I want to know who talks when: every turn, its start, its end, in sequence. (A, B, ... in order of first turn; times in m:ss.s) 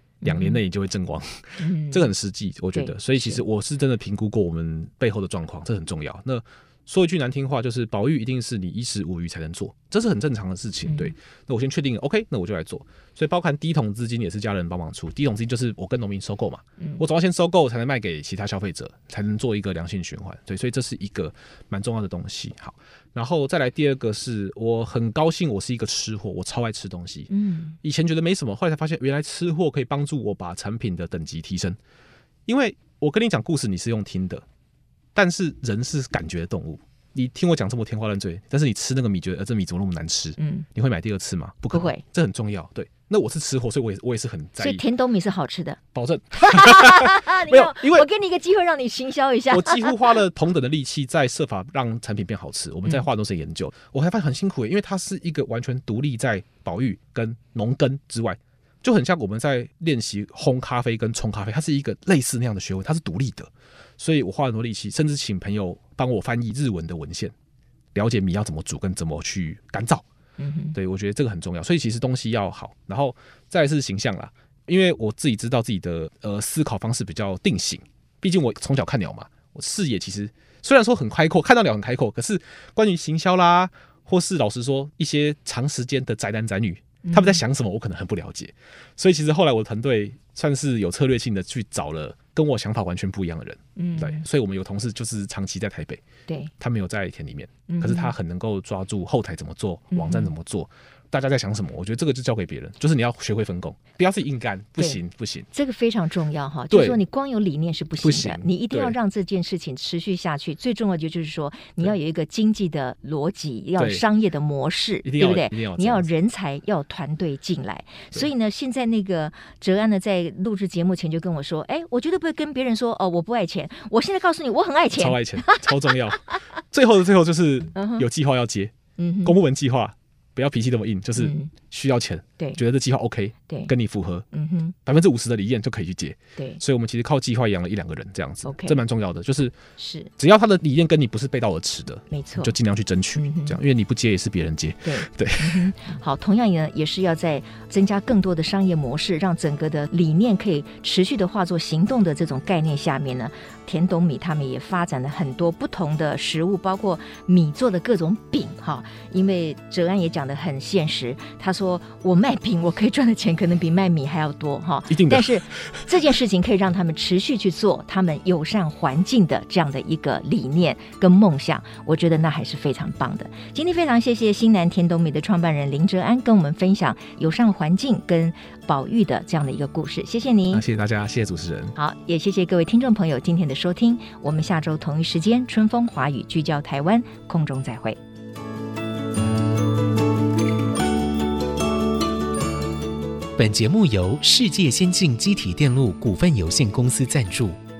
0:00.2-0:00.6 A
0:00.2-0:27.3 B
0:01.6-0:02.1 A
0:02.7-0:03.4 A
0:10.8-0:11.1 A
0:27.3-0:27.8 A
0:27.8-0:31.8 B
0:32.5-0:34.4 B
0:35.1-0:44.8 B
0:40.4-0:40.6 A
0:41.7-0:42.0 A
0:44.6-0:45.8 A
0:45.9-0:48.1 B
0:46.4-0:50.1 A
0:49.5-1:07.3 B
1:07.9-1:10.0 B
1:10.4-1:10.8 A
1:10.7-1:36.0 B
1:27.0-1:27.4 A
1:33.8-1:34.2 A
1:36.6-1:45.5 B
1:37.7-1:38.1 A
1:39.9-1:40.3 A
1:45.5-2:06.3 A
1:46.7-1:47.0 B
1:48.0-1:49.0 B
1:53.8-1:54.0 B
1:55.0-1:56.1 B
2:04.9-2:14.3 B
2:07.8-2:08.0 A
2:09.0-2:09.4 A
2:11.2-2:11.5 A
2:14.3-2:14.7 A
2:14.8-2:19.5 B
2:18.4-2:18.8 A
2:19.8-2:20.1 A
2:20.2-2:25.7 B
2:22.1-2:22.5 A
2:23.2-2:23.6 A
2:24.8-3:00.6 A
2:44.9-2:45.8 B
3:00.5-3:01.8 B
3:01.8-3:08.0 A
3:13.4-3:17.6 C